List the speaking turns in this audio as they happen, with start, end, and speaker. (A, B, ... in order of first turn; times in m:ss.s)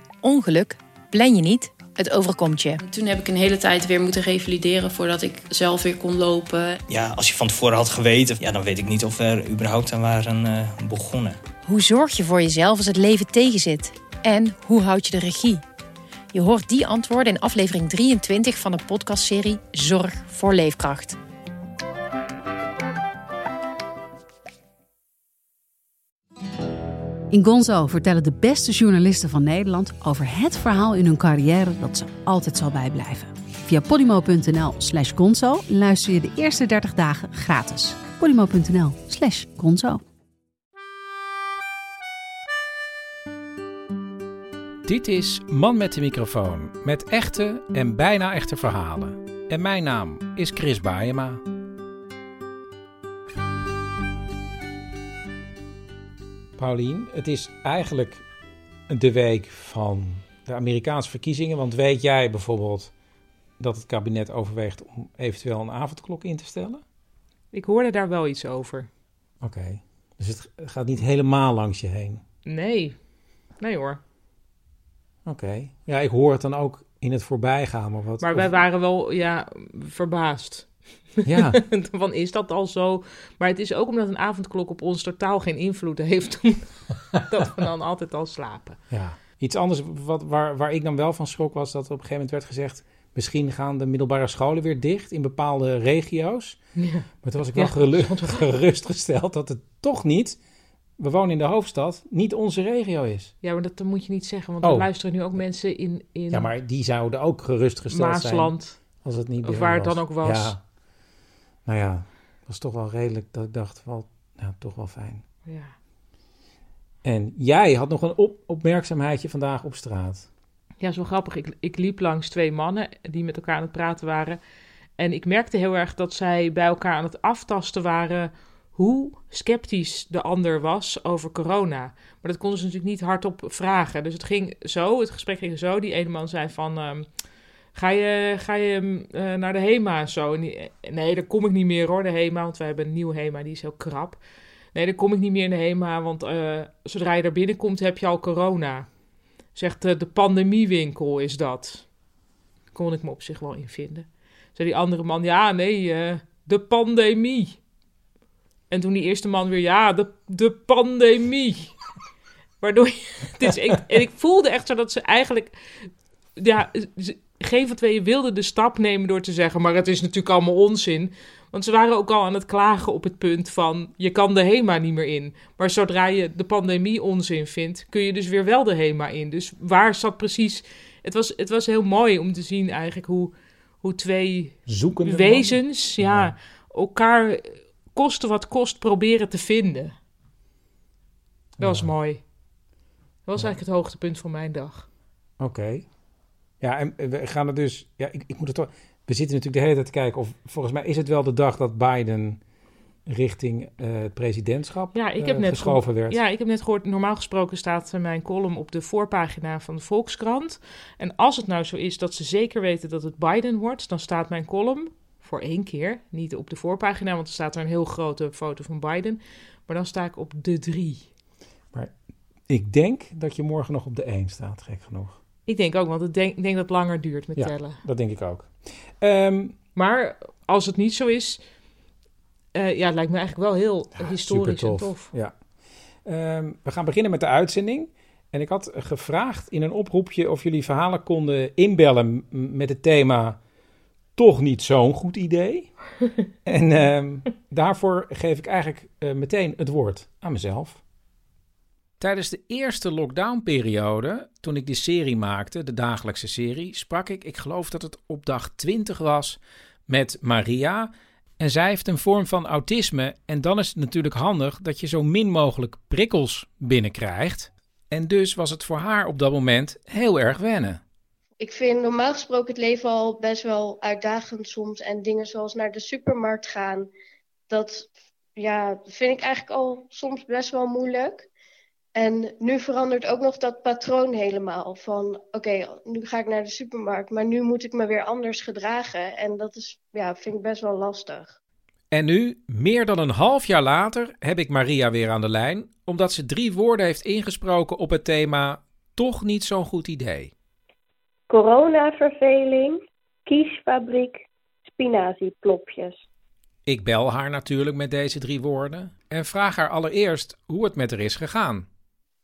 0:00.2-0:00.6 A
0:01.1-0:01.6 A
0:02.1-0:02.7 A
0:02.8-0:06.8 B
0:06.9-0:11.4 C
0:11.7-0:15.4 A
0:16.3-0:21.0 A
0:27.3-0:40.0 D
0:44.8-0:51.4 E
0:56.6-0:58.2 E
0:58.9-1:02.9 E
1:03.6-1:06.8 E
1:07.5-1:08.9 F
1:09.4-1:12.2 E
1:12.4-1:13.0 F
1:13.6-1:14.0 F
1:15.2-1:18.5 E
1:18.2-1:28.8 F
1:21.2-1:21.6 E
1:28.9-1:36.6 E
1:36.8-1:38.4 F
1:37.2-1:40.4 E
1:41.0-1:43.3 E
1:43.4-1:46.5 F
1:44.6-1:45.4 E
1:46.3-1:50.6 E
1:47.9-1:48.8 F
1:49.3-1:50.6 F
1:51.6-1:55.2 E
1:55.4-1:55.7 F
1:57.0-2:00.3 E
2:00.8-2:04.4 F
2:05.0-2:17.1 F
2:17.7-2:28.9 F
2:29.5-2:31.9 F
2:32.7-2:37.6 F
2:38.7-2:41.8 F
2:42.6-3:10.0 F
3:04.6-3:06.3 E
3:11.6-3:11.9 E
3:11.6-3:12.2 F
3:13.3-3:14.9 F
3:15.4-3:15.9 E
3:16.6-3:22.4 E
3:23.1-3:26.2 E
3:24.9-3:41.1 F
3:42.5-3:45.2 E
3:45.4-3:47.8 F
3:47.4-3:49.6 E
3:49.7-3:51.4 F
3:52.5-3:55.1 F
3:54.0-3:55.3 E
3:56.0-4:03.4 E
4:04.2-4:05.7 E
4:06.4-4:10.8 E
4:12.0-4:30.8 E
4:31.4-4:36.9 G
4:37.5-4:41.3 G
4:41.9-4:51.4 G
4:51.9-5:00.3 E
5:01.3-5:06.0 G
5:06.6-5:11.7 E